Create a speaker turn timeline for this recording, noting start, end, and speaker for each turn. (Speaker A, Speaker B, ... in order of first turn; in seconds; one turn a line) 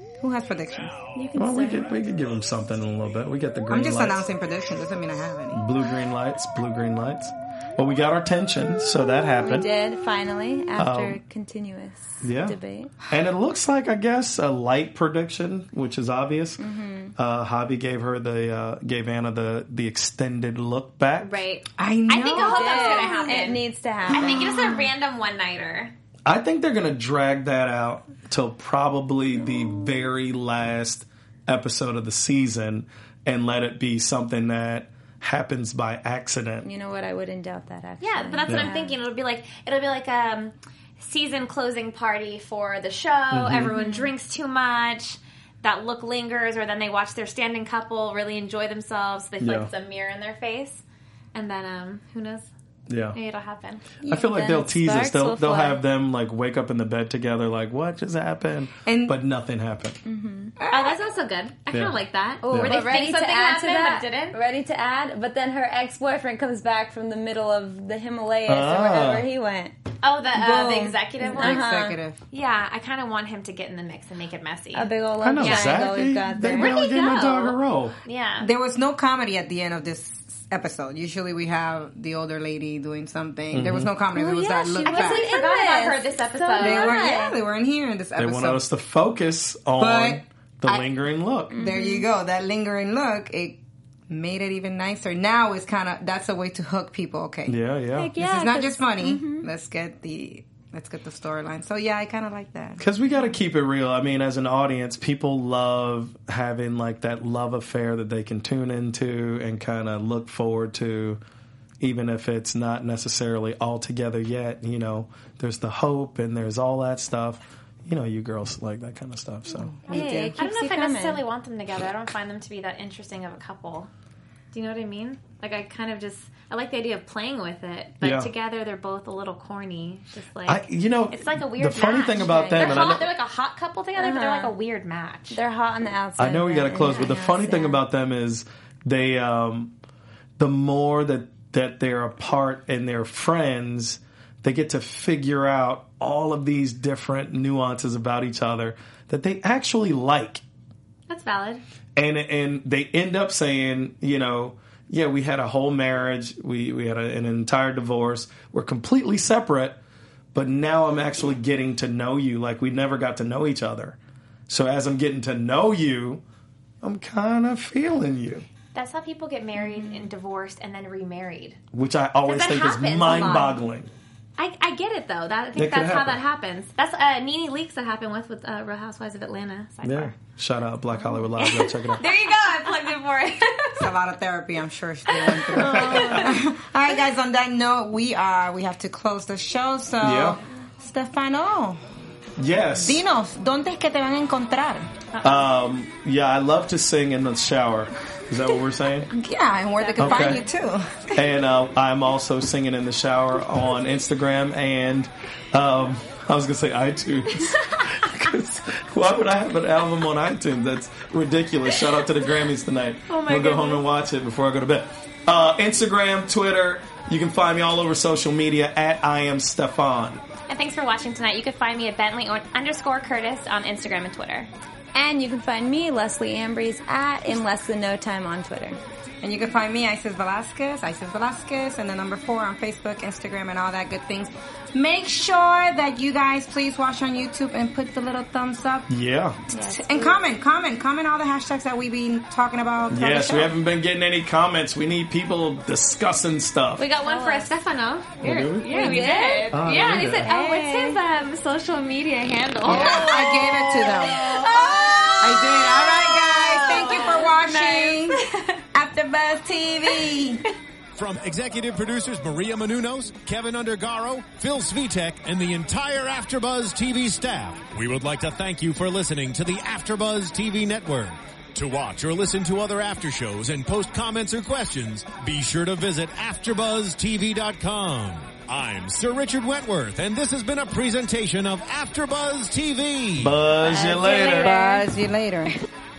Speaker A: 0.2-1.0
Speaker B: 1.1-1.9
Speaker C: 1.4-4.3
Speaker A: 3.7-5.6
Speaker C: 5.5-9.7
Speaker B: 9.4-12.9
Speaker C: 10.8-11.2
Speaker C: 12.2-12.6
Speaker C: 13.1-16.6
Speaker B: 16.6-17.1
Speaker C: 17.2-21.4
Speaker D: 21.2-25.9
Speaker A: 21.8-23.5
Speaker B: 22.3-24.7
Speaker A: 24.1-24.8
Speaker C: 26.3-36.7
Speaker B: 36.6-39.0
Speaker D: 38.0-50.8
Speaker C: 43.3-43.8
Speaker B: 43.8-44.1
Speaker C: 49.4-49.7
Speaker D: 51.3-52.5
Speaker C: 52.9-53.2
Speaker D: 53.1-54.0
Speaker B: 54.0-55.8
Speaker C: 54.1-60.0
Speaker A: 58.9-59.2
Speaker B: 60.0-60.5
Speaker A: 60.6-61.0
Speaker D: 60.7-64.4
Speaker C: 61.7-62.0
Speaker B: 62.4-69.7
Speaker C: 62.5-62.8
Speaker C: 68.5-69.3
Speaker D: 70.0-71.7
Speaker B: 70.3-72.0
Speaker A: 71.3-72.2
Speaker D: 72.3-74.9
Speaker B: 74.8-76.8
Speaker C: 75.2-78.0
Speaker D: 75.4-75.8
Speaker D: 76.5-78.5
Speaker A: 78.4-85.3
Speaker C: 83.5-83.9
Speaker B: 84.1-87.4
Speaker D: 84.8-87.2
Speaker A: 86.6-88.6
Speaker C: 88.2-91.6
Speaker A: 89.8-90.9
Speaker A: 91.5-97.6
Speaker B: 91.5-92.1
Speaker C: 97.5-98.1
Speaker B: 98.0-99.5
Speaker A: 98.1-102.8
Speaker C: 102.8-111.2
Speaker C: 111.8-119.8
Speaker A: 119.7-120.4
Speaker B: 119.9-121.2
Speaker D: 119.9-123.9
Speaker D: 124.5-135.4
Speaker C: 128.0-128.3
Speaker C: 130.5-133.1
Speaker B: 132.2-132.9
Speaker B: 134.0-134.6
Speaker B: 135.3-137.8
Speaker C: 136.2-139.7
Speaker C: 140.4-150.4
Speaker D: 151.1-151.6
Speaker C: 152.0-159.8
Speaker C: 160.3-164.0
Speaker C: 164.5-166.2
Speaker C: 166.8-168.5
Speaker D: 168.7-171.6
Speaker B: 169.6-170.1
Speaker C: 171.7-173.9
Speaker D: 172.2-173.6
Speaker D: 174.4-180.2
Speaker C: 175.6-176.2
Speaker C: 179.8-182.1
Speaker D: 181.4-183.9
Speaker A: 183.8-191.8
Speaker D: 185.1-186.3
Speaker B: 185.7-186.4
Speaker C: 185.7-186.1
Speaker C: 190.0-190.4
Speaker C: 192.4-193.0
Speaker A: 192.8-194.9
Speaker D: 195.1-195.4
Speaker C: 195.2-199.1
Speaker A: 199.1-201.2
Speaker D: 199.8-200.5
Speaker C: 200.0-200.4
Speaker C: 201.2-220.2
Speaker D: 207.4-207.9
Speaker D: 213.1-213.8
Speaker D: 220.5-224.5
Speaker B: 224.9-228.8
Speaker A: 229.2-238.9
Speaker C: 238.9-239.4
Speaker A: 239.5-243.5
Speaker D: 239.5-240.2
Speaker C: 242.9-246.9
Speaker D: 246.8-258.6
Speaker B: 247.0-247.5
Speaker C: 248.2-250.3
Speaker B: 248.7-249.5
Speaker B: 250.3-251.0
Speaker A: 252.6-258.2
Speaker B: 252.7-253.6
Speaker B: 254.4-254.8
Speaker A: 258.7-260.4
Speaker E: 261.0-283.4
Speaker C: 283.2-284.5
Speaker D: 283.6-284.7
Speaker A: 284.2-285.5
Speaker B: 284.4-284.8